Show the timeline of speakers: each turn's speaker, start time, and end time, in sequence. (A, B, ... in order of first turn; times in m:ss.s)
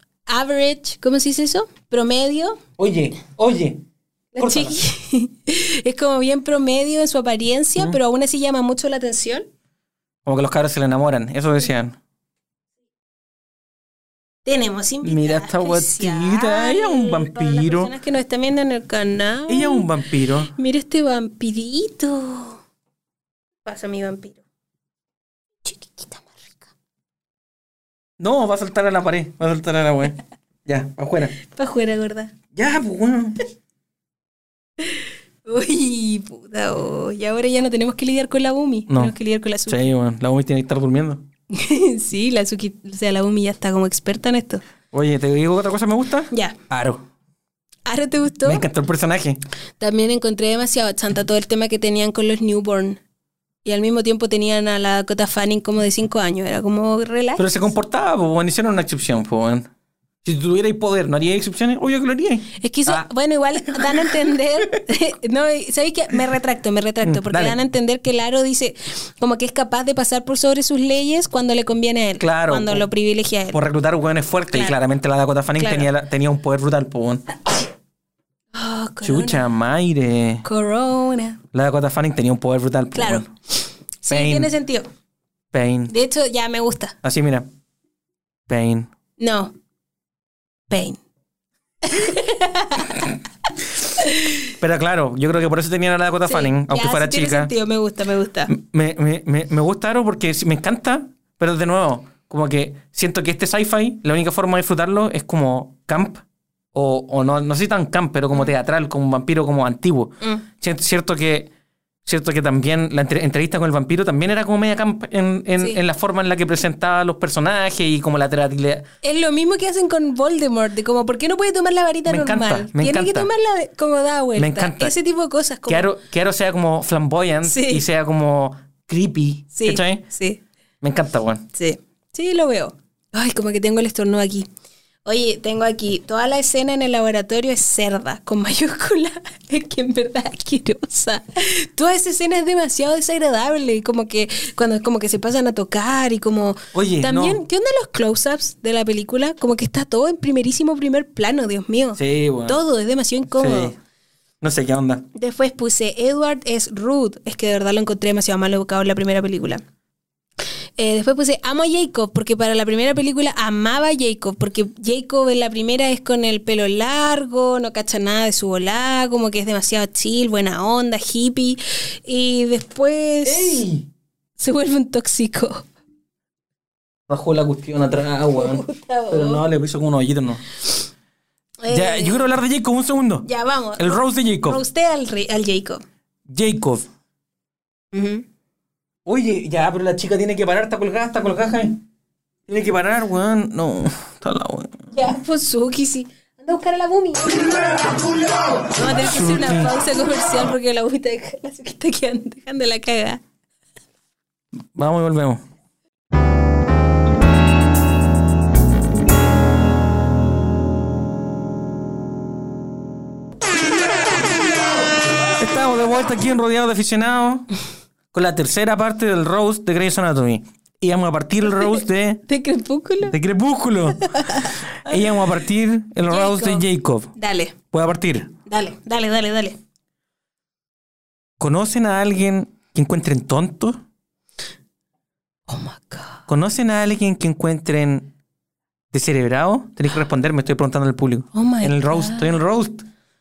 0:00.3-0:02.6 A
0:02.8-0:03.8 B
0:04.3-0:09.4 A
0:04.4-0:04.8 B
0:10.2-0:12.0 B
0:14.4-0:19.9 A
0:15.0-0:17.9 B
0:19.5-0:20.5 B
0:20.5-0:22.6 A
0:23.6-0:24.4 A
0:25.6-0:26.7 A
0:28.2-0:31.4 B
0:31.4-0:32.3 A
0:32.5-0:33.4 B
0:34.8-0:39.9 A
0:38.9-0:39.1 B
0:39.7-0:41.2 B
0:41.5-0:44.6 A
0:44.9-0:47.0 B
0:46.3-0:46.6 A
0:47.8-0:48.6 A
0:48.4-0:49.4 B
0:49.8-0:53.0 A
0:53.6-0:57.4 A
0:57.4-0:59.7 B
1:00.2-1:03.0 B
1:02.6-1:13.6 A
1:03.7-1:04.3 B
1:07.0-1:07.6 B
1:12.2-1:12.9 B
1:13.5-1:17.3 B
1:14.5-1:14.8 A
1:15.6-1:15.9 A
1:18.5-1:19.4 A
1:19.0-1:20.4 B
1:20.4-1:21.4 A
1:21.5-1:23.3 B
1:22.9-1:23.2 A
1:24.0-1:24.9 A
1:24.1-1:24.5 B
1:25.5-1:25.9 B
1:25.9-1:27.0 A
1:27.0-1:27.5 B
1:28.5-1:28.9 B
1:29.2-1:29.5 A
1:30.7-1:31.0 A
1:31.8-1:33.1 A
1:34.0-1:34.5 A
1:34.5-1:37.5 B
1:36.2-1:38.5 A
1:38.5-1:46.2 B
1:46.7-1:51.5 B
1:52.0-1:58.8 B
1:59.0-2:05.9 A
2:02.1-2:03.3 B
2:04.4-2:04.9 B
2:05.7-2:10.0 B
2:07.4-2:07.8 A
2:09.5-2:10.4 A
2:10.8-2:11.5 B
2:11.5-2:14.5 A
2:15.0-2:33.8 A
2:26.7-2:27.4 B
2:32.0-2:32.6 B
2:33.3-2:33.8 B
2:34.4-2:35.0 B
2:35.1-2:39.6 A
2:40.8-2:53.6 A
2:53.2-2:53.9 B
2:54.4-2:55.7 A
2:57.1-3:00.4 B
2:58.4-2:59.4 A
3:01.6-3:02.3 A
3:01.7-3:04.6 B
3:03.2-3:05.8 A
3:06.3-3:06.8 B
3:07.9-3:08.2 A
3:09.0-3:11.8 B
3:12.5-3:14.8 B
3:14.9-3:17.5 A
3:18.7-3:23.2 A
3:18.8-3:19.7 B
3:24.7-3:25.4 B
3:35.4-3:37.5 B
3:38.1-3:42.2 B
3:42.3-3:43.1 A
3:43.0-3:47.1 B
3:44.0-3:44.6 A
3:46.1-3:47.5 A
3:47.7-3:48.3 B
3:48.5-3:49.6 A
3:51.4-3:53.8 B
3:55.5-3:56.2 A
3:56.3-3:58.1 B
3:58.9-4:02.8 B
4:01.3-4:02.4 A